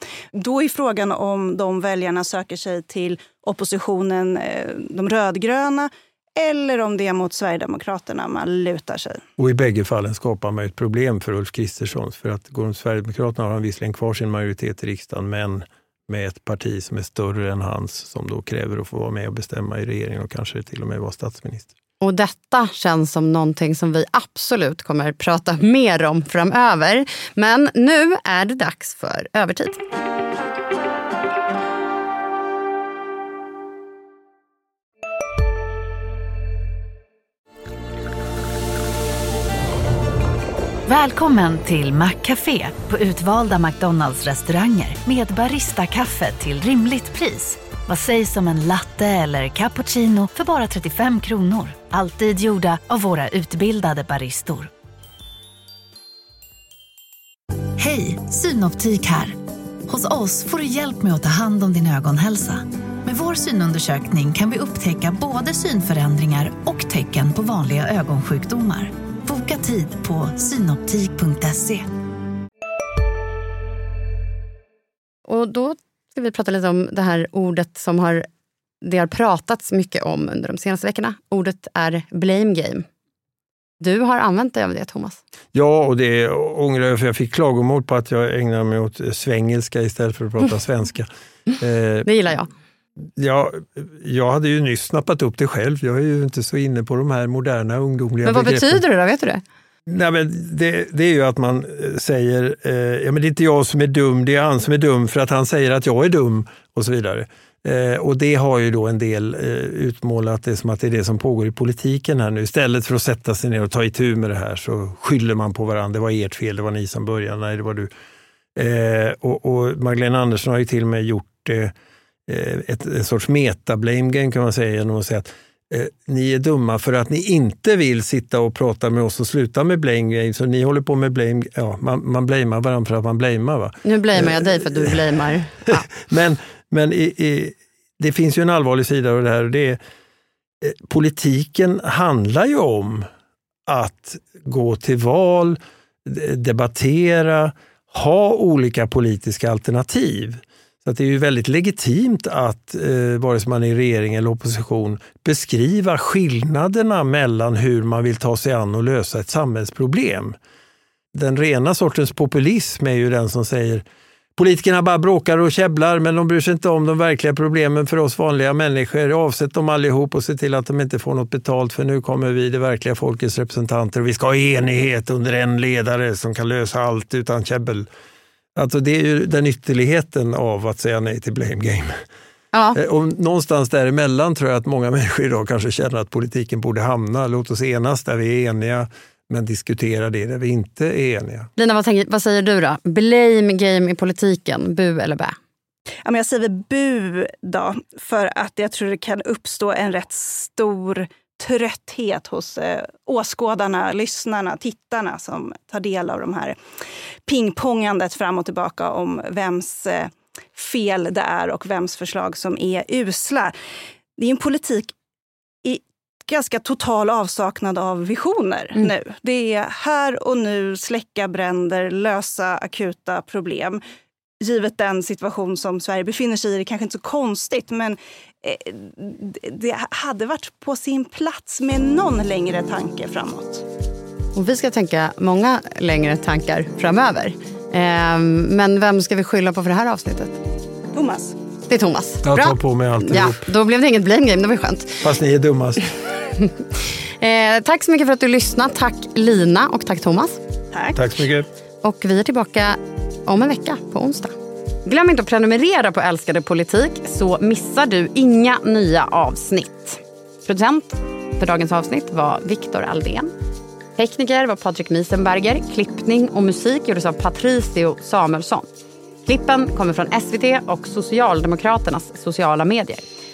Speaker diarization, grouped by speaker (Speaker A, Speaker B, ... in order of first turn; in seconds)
Speaker A: 0.3-9.2, 196.0-206.6, 207.3-213.5, 214.2-214.9, 215.6-223.8, 224.4-233.6, 240.9-241.3, 250.7-251.0
Speaker B: 9.4-21.7, 85.5-91.1, 91.6-92.3, 93.2-98.8, 99.8-117.9, 118.5-121.7, 122.3-135.0, 135.7-139.8, 140.6-143.1, 143.7-160.3, 161.1-163.8, 164.3-177.9, 178.5-182.0, 182.7-191.5, 242.2-243.5, 245.0-245.9, 250.9-251.5
Speaker C: 22.0-29.8, 75.3-78.2, 78.8-82.8, 83.8-85.2, 92.0-92.5, 98.2-99.4, 133.8-135.9, 182.5-182.8, 191.6-195.4, 234.3-240.4, 241.7-245.0, 247.2-250.4, 251.8-254.3, 254.8-263.3, 264.0-268.7, 269.2-273.0
Speaker D: 40.9-54.7, 57.8-71.9